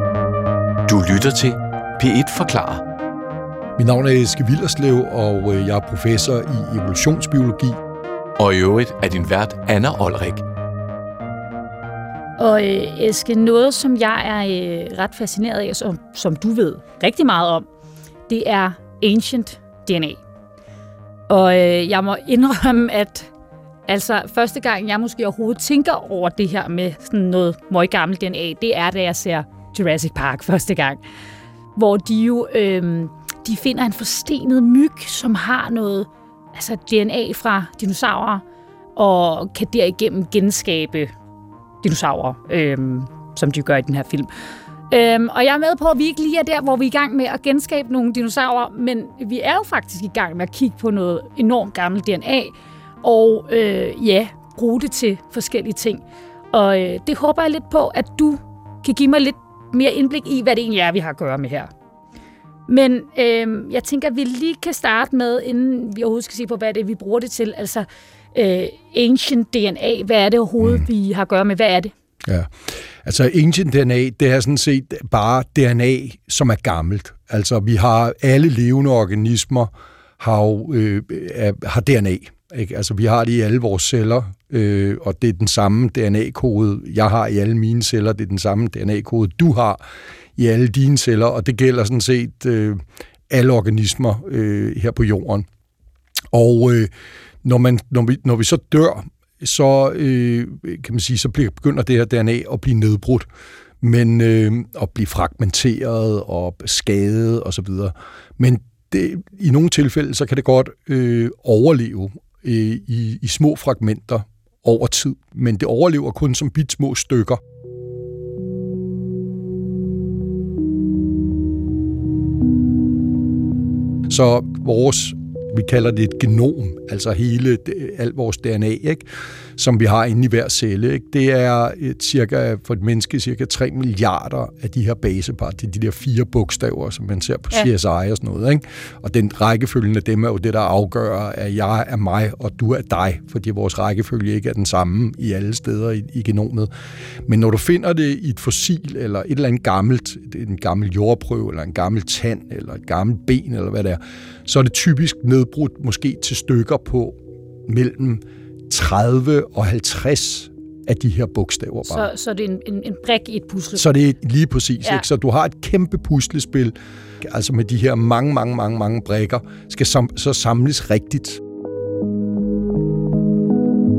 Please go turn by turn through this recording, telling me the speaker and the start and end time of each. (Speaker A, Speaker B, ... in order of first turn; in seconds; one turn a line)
Speaker A: 0.9-2.8
Speaker B: 3.8-7.8
Speaker A: 8.4-10.4
Speaker C: 12.4-17.6
Speaker C: 18.3-20.2
Speaker C: 21.3-23.3
Speaker C: 23.9-31.0
Speaker C: 31.7-38.4
Speaker C: 39.0-41.1
Speaker C: 41.8-44.3
Speaker C: 44.9-61.7
Speaker C: 62.7-71.9
Speaker B: 70.6-70.8
Speaker B: 72.2-89.8
Speaker B: 90.4-95.4
Speaker B: 96.3-96.9
Speaker B: 97.4-103.3
Speaker B: 103.8-117.4
Speaker B: 124.1-129.1
Speaker B: 129.6-146.7
Speaker B: 147.3-157.2
Speaker B: 157.7-162.1
Speaker C: 161.9-163.9
Speaker B: 163.7-171.4